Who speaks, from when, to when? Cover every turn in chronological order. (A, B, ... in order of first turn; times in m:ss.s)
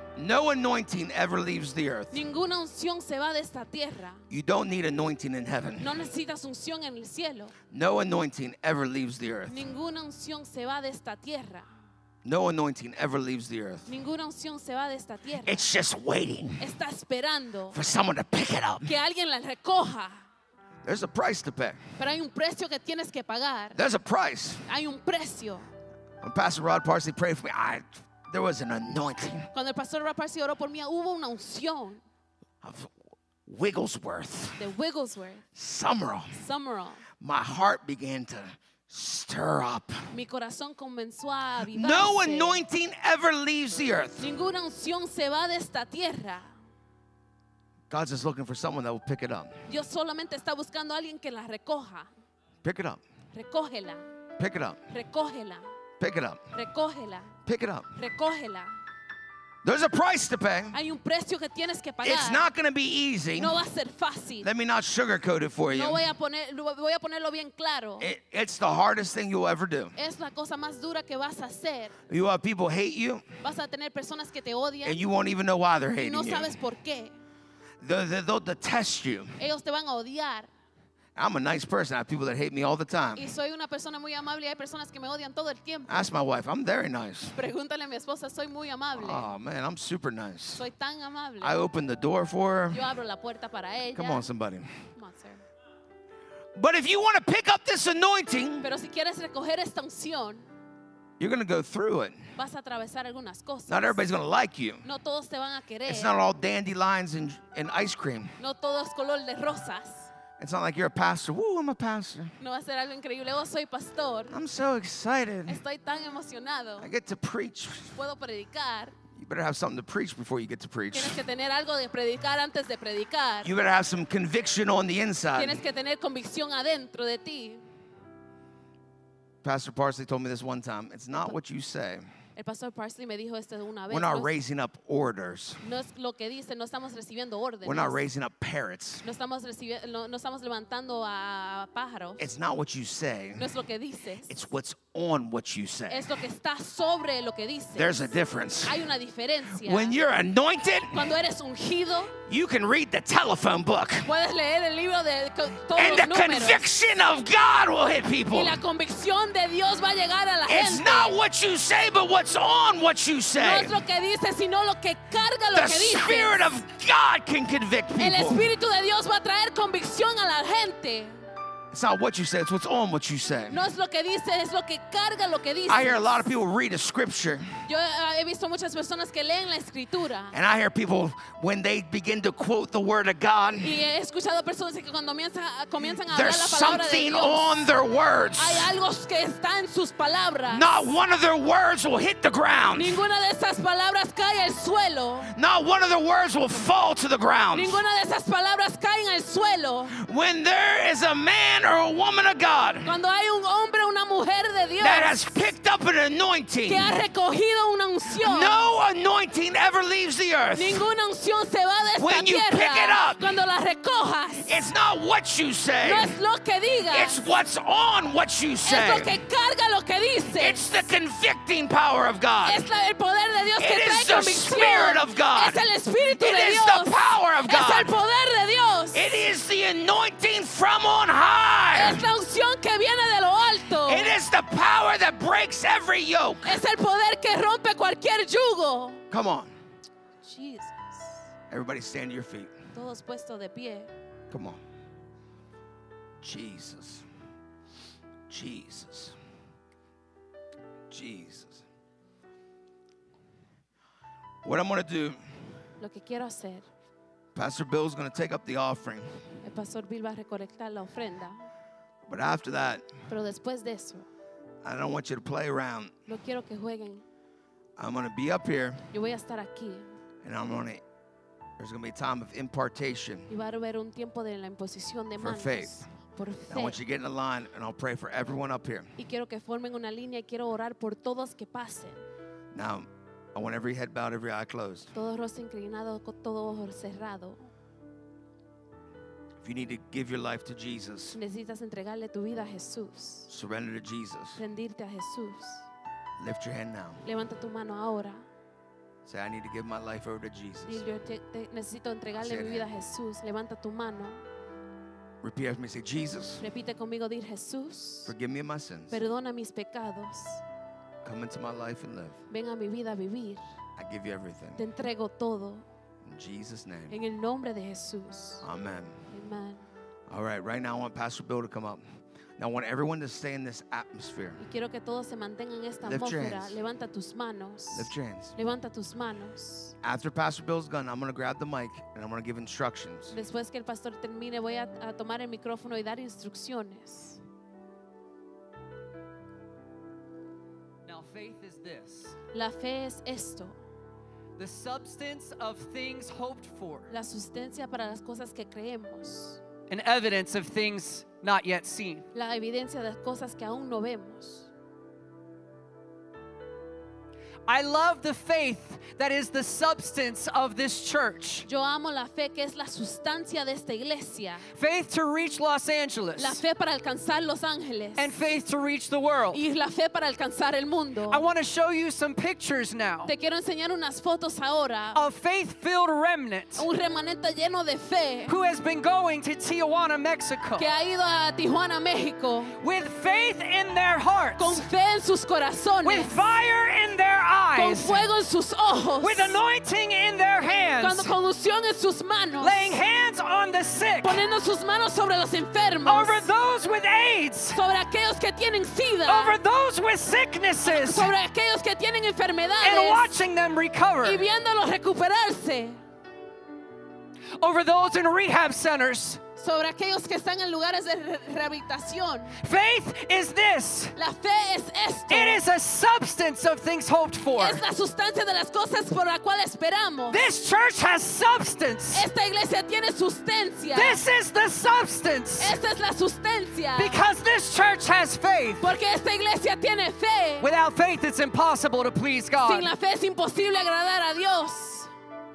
0:00.2-0:02.2 A
0:02.1-0:04.2 B
0:04.3-0:05.9 A
0:05.8-0:07.5 B
0:07.7-0:09.6 A
0:09.5-0:11.7 B
0:12.2-0:13.9 A
0:13.9-0:15.6 B
0:15.4-0:16.6 A
0:16.6-0:17.8 B
0:17.7-0:18.9 A
0:18.8-0:20.2 B
0:20.8-0:21.8 A
0:22.0-0:23.8 B
0:23.7-0:24.6 A
0:24.7-0:25.7 B
0:26.2-0:29.5 A
0:29.5-0:32.0 B
0:32.6-0:32.9 A
0:33.4-0:34.6 A
0:34.6-0:35.4 B
0:35.5-0:36.4 A
0:36.3-0:37.0 B
0:37.2-0:40.0 A
0:40.1-0:42.6 B
0:41.7-0:44.3 A
0:44.2-0:46.5 B
0:47.9-0:49.5 A
0:49.7-0:52.1 B
0:52.6-0:53.0 A
0:53.3-0:54.0 B
0:54.4-0:54.8 A
0:54.9-0:55.7 B
0:56.0-0:56.4 A
0:56.5-0:57.3 B
0:57.4-0:57.9 A
0:57.9-0:58.8 B
0:59.6-1:00.8 A
1:00.7-1:02.5 B
1:02.0-1:03.5 A
1:03.4-1:04.5 B
1:04.4-1:06.0 A
1:05.7-1:08.1 B
1:08.0-1:09.9 A
1:10.0-1:12.0 B
1:12.1-1:13.2 A
1:13.4-1:15.0 B
1:14.8-1:16.5 A
1:16.0-1:17.2 B
1:17.8-1:19.4 A
1:19.4-1:20.5 B
1:21.2-1:23.3 A
1:23.2-1:26.1 B
1:25.9-1:27.4 A
1:27.3-1:29.3 B
1:29.0-1:30.6 A
1:30.6-1:31.6 B
1:31.4-1:32.8 A
1:32.7-1:34.2 B
1:33.9-1:34.8 A
1:34.9-1:35.4 B
1:36.5-1:38.7 A
1:38.6-1:40.4 B
1:41.2-1:42.2 A
1:42.4-1:44.0 B
1:43.7-1:44.8 A
1:44.8-1:46.1 B
1:45.8-1:48.3 A
1:48.4-1:50.1 B
1:50.4-1:52.3 A
1:52.4-1:54.3 B
1:54.3-1:55.6 A
1:55.5-1:56.9 B
1:56.8-1:58.0 A
1:58.0-1:59.0 B
1:59.1-2:01.2 A
2:00.9-2:03.5 B
2:03.4-2:05.6 A
2:05.3-2:07.6 B
2:09.4-2:12.0 A
2:12.4-2:14.3 B
2:13.9-2:15.6 A
2:15.6-2:18.0 B
2:17.6-2:19.0 A
2:19.0-2:22.3 B
2:22.2-2:23.5 A
2:23.4-2:24.3 B
2:24.3-2:26.1 A
2:25.9-2:28.1 B
2:27.7-2:28.8 A
2:28.6-2:30.0 B
2:29.5-2:31.1 A
2:30.9-2:32.2 B
2:32.3-2:34.1 A
2:34.0-2:36.6 B
2:35.7-2:38.6 A
2:38.3-2:41.1 B
2:40.5-2:43.8 A
2:43.4-2:46.5 B
2:45.5-2:48.5 A
2:48.0-2:51.2 B
2:51.7-2:53.6 A
2:53.5-2:56.3 B
2:55.7-2:57.5 A
2:57.6-3:00.3 B
3:00.3-3:03.8 A
3:03.6-3:07.6 B
3:06.1-3:08.7 A
3:08.4-3:10.9 B
3:10.5-3:13.0 A
3:12.7-3:15.3 B
3:15.3-3:17.8 A
3:17.5-3:20.0 B
3:19.9-3:22.9 A
3:22.8-3:25.4 B
3:24.8-3:27.0 A
3:26.6-3:28.6 B
3:28.1-3:30.8 A
3:30.5-3:34.6 B
3:32.0-3:33.4 A
3:34.4-3:36.1 A
3:35.8-3:37.2 B
3:36.9-3:39.2 A
3:38.6-3:40.8 B
3:40.3-3:42.6 A
3:42.4-3:49.2 B
3:43.6-3:45.6 A
3:46.2-3:47.9 A
3:48.9-3:52.1 A
3:51.7-3:54.1 B
3:53.8-3:56.6 A
3:56.4-3:59.0 B
3:59.1-3:59.5 A
4:00.2-4:01.2 B
4:01.5-4:02.5 A
4:02.7-4:03.9 B
4:04.3-4:04.6 A
4:06.2-4:07.0 A
4:08.3-4:09.2 A
4:10.9-4:11.6 A
4:14.4-4:15.2 A
4:15.8-4:16.6 B
4:17.3-4:19.1 A
4:19.4-4:21.4 B
4:22.0-4:22.9 A
4:23.1-4:24.1 B
4:24.6-4:25.9 A
4:26.1-4:27.0 B
4:27.8-4:28.9 A
4:28.9-4:29.9 B
4:30.2-4:30.8 A
4:31.6-4:33.3 A
4:33.3-4:36.8 B
4:35.2-4:35.8 A
4:36.5-4:38.9 A
4:39.0-4:42.0 B
4:42.5-4:44.9 A
4:44.9-4:47.4 B
4:49.4-4:51.2 A
4:51.1-4:53.3 B
4:53.3-4:54.4 A
4:54.4-4:55.7 B
4:56.2-4:57.0 A
4:57.0-4:58.2 B
4:59.0-5:00.8 A
5:00.7-5:04.2 B
5:02.1-5:02.7 A
5:05.2-5:06.4 A
5:06.4-5:08.1 B
5:08.1-5:09.0 A
5:08.9-5:10.4 B
5:11.0-5:12.2 A
5:12.3-5:13.4 B
5:13.8-5:14.6 A
5:14.6-5:15.6 B
5:16.0-5:17.0 A
5:16.9-5:18.4 B
5:18.4-5:19.0 A
5:19.1-5:19.6 B
5:20.1-5:21.8 A
5:22.4-5:24.4 A
5:24.4-5:29.7 B
5:25.8-5:26.6 A
5:27.7-5:28.3 A
5:29.8-5:33.2 A
5:33.1-5:37.2 B
5:40.8-5:42.2 C
5:42.3-5:43.6 B
5:44.4-5:46.9 C
5:46.9-5:49.4 B
5:49.7-5:52.0 C
5:52.1-5:54.5 B
5:57.5-6:01.5 C
6:01.4-6:04.4 B
6:04.6-6:06.4 C
6:06.2-6:08.1 B
6:08.0-6:09.4 C
6:09.3-6:11.2 B
6:11.1-6:13.1 C
6:13.0-6:15.0 B
6:14.9-6:16.6 C
6:16.6-6:18.3 B
6:18.3-6:20.7 C
6:20.6-6:22.6 B
6:22.6-6:24.6 C
6:24.4-6:26.3 B
6:25.8-6:28.0 C
6:27.6-6:29.4 B
6:29.0-6:31.2 C
6:30.8-6:32.8 B
6:32.4-6:34.2 C
6:34.0-6:36.3 B
6:35.8-6:37.6 C
6:37.5-6:39.3 B
6:39.1-6:41.1 C
6:40.6-6:43.1 B
6:42.6-6:44.2 C
6:44.0-6:45.8 B
6:47.4-6:49.2 C
6:49.4-6:52.4 B
6:52.4-6:53.9 C
6:54.0-6:55.4 B
6:55.1-6:57.6 C
6:57.4-7:00.2 B
7:00.1-7:02.0 C
7:01.9-7:04.0 B
7:03.7-7:05.6 C
7:05.4-7:07.0 B
7:06.8-7:08.6 C
7:08.6-7:10.5 B
7:10.4-7:12.7 C
7:12.4-7:14.9 B